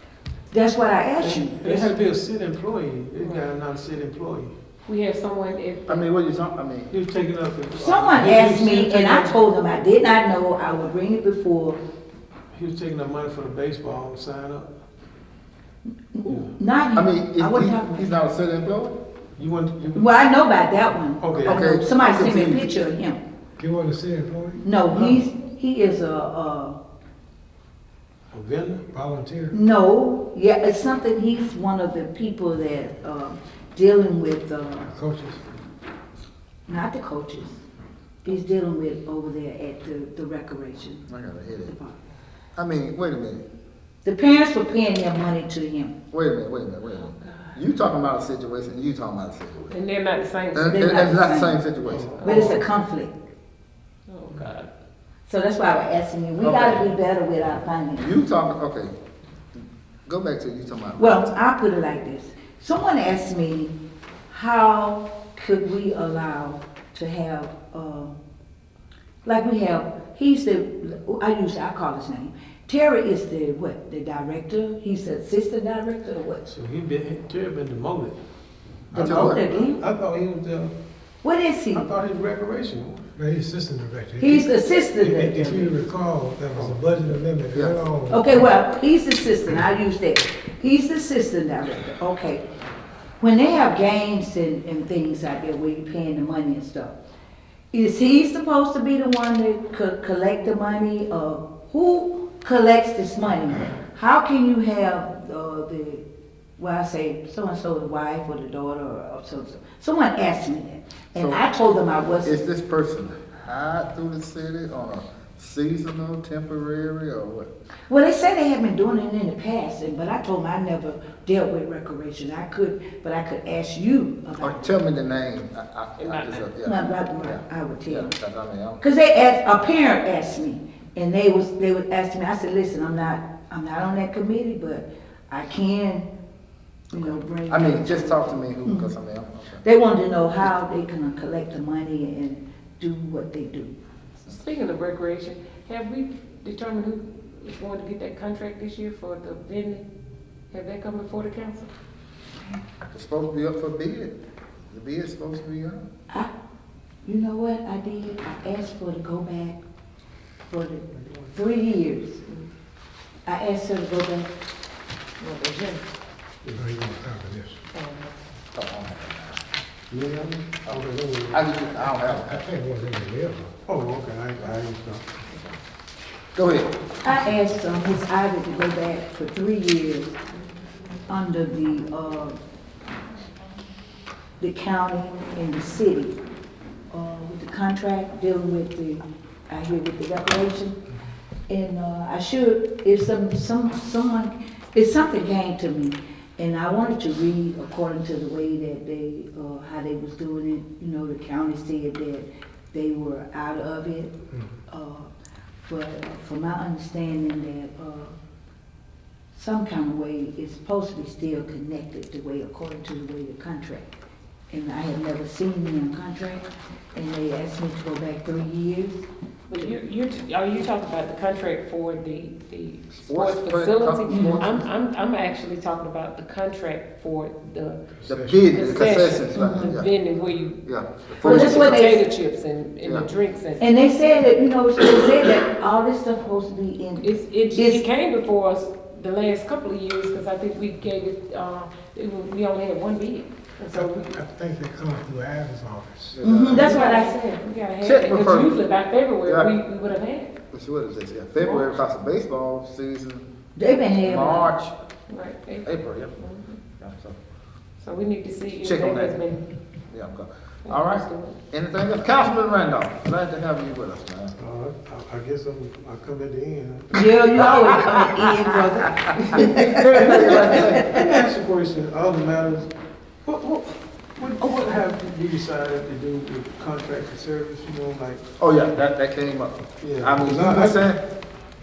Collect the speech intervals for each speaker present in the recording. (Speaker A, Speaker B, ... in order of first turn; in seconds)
Speaker A: 0.5-1.9, 7.8-11.8, 16.1-18.1, 19.9-23.2, 24.6-26.8, 29.5-34.9, 36.7-37.6, 38.2-41.1, 41.7-42.0, 44.0-45.9, 50.7-51.6, 52.2-53.1, 55.3-58.1, 61.0-63.7, 64.3-68.2, 69.2-76.5, 78.9-79.8, 81.2-81.9, 84.2-85.7, 88.1-92.4, 93.2-97.0, 97.7-106.0, 106.6-112.4, 117.9-124.7, 126.6-128.1, 128.8-136.1, 136.9-138.9, 139.6-143.8, 157.1-159.6, 160.5-162.2, 163.3-164.3, 177.0-180.2, 181.1-182.4, 184.4-186.2, 186.9-190.8, 191.5-204.2, 204.7-205.1, 205.7-208.1, 209.3-213.9, 214.5-219.1, 224.1-224.4, 229.4-229.7, 231.2-232.0, 233.6-237.8, 246.2-247.2, 253.6-254.5, 266.9-271.1
Speaker B: 1.2-4.5, 6.9-9.4, 12.5-14.7, 19.4-20.2, 21.2-21.6, 24.9-25.2, 28.3-28.9, 51.9-52.6, 76.5-78.2, 78.9-80.7, 81.7-83.1, 85.0-85.5, 86.5-87.1, 166.4-166.7, 169.9-171.4, 173.7-175.1, 264.4-266.9, 270.8-272.7, 273.2-278.3, 279.8-280.9
Speaker C: 3.2-3.5, 4.9-6.1, 47.1-47.6, 49.7-51.4, 52.2-52.6, 54.1-54.7, 126.0-126.5, 144.2-149.8, 150.5-151.7, 165.2-165.8, 167.7-168.2, 175.3-175.6, 219.5-227.8, 228.5-230.6, 231.2-233.6, 237.0-244.2, 246.4-250.3, 251.4-251.7, 255.1-256.6, 257.8-259.4, 260.6-261.4
Speaker D: 5.9-6.9, 16.9-19.0, 21.4-22.7, 41.1-41.7, 42.6-43.4, 46.1-49.7, 50.5-52.5, 56.4-56.8, 58.0-59.0, 60.1-61.3, 79.0-79.4, 111.2-111.4, 112.2-117.5, 124.4-128.8, 136.9-139.6, 152.9-154.2, 154.7-155.8, 168.5-169.4, 170.6-172.4, 176.3-176.7, 223.0-224.7, 228.1-229.9, 230.6-231.8, 232.8-233.1, 246.1-246.8, 247.8-248.6, 249.2-249.5, 250.5-253.3, 254.0-254.7, 255.7-256.1, 256.8-257.2, 258.6-259.2, 259.9-264.4, 269.3-271.1, 278.4-281.0
Speaker E: 23.6-24.6, 28.9-29.6, 34.9-35.4, 83.2-84.5, 85.2-88.5, 166.6-167.6, 172.2-173.6, 204.3-204.6, 228.0-228.5, 243.7-246.2